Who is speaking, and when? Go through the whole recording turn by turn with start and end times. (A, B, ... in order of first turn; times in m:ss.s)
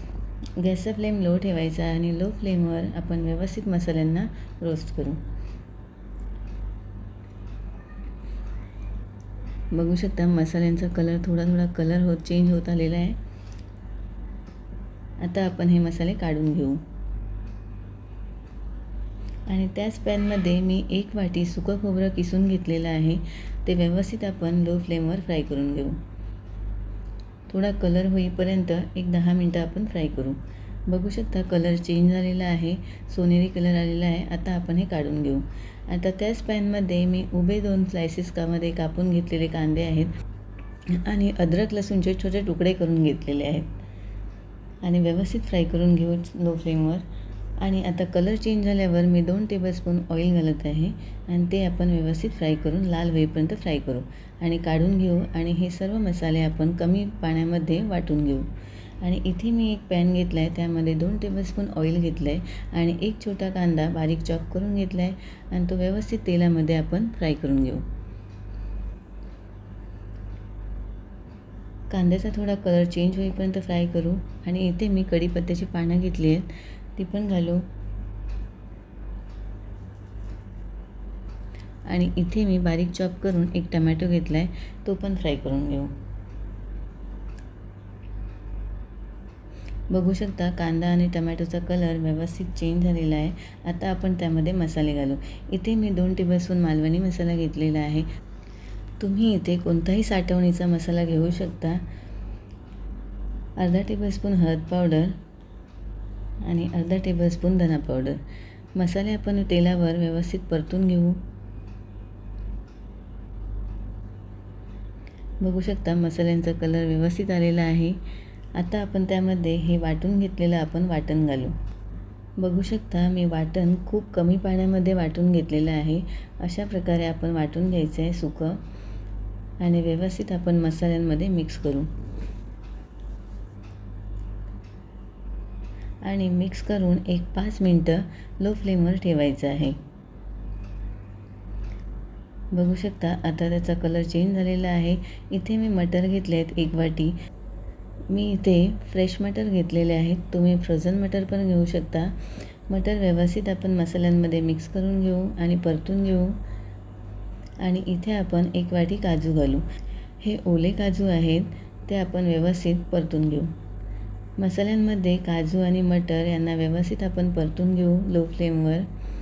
0:00.6-0:05.2 A
0:09.7-0:13.2 A
0:15.2-0:16.8 A
0:19.5-0:26.0 A
0:27.5-0:40.1 A
0:40.9-0:43.7 A
0:44.8-0:47.0 A
0:47.6-0:58.5 A
0:59.0-1:07.8 A
1:11.9-1:17.7 A
1:21.8-1:25.9 A
1:29.9-1:38.1 A
1:39.0-1:41.8 A
1:43.6-1:45.2 A
1:46.4-1:48.2 A
1:48.7-1:51.2 A
1:55.4-1:58.0 A
1:58.5-2:01.6 A
2:02.4-2:08.6 A
2:09.6-2:11.9 A
2:16.0-2:19.8 A
2:22.5-2:27.2 A
2:28.1-2:36.4 A
2:37.6-2:39.7 A
2:40.2-2:43.5 A
2:44.4-2:48.9 A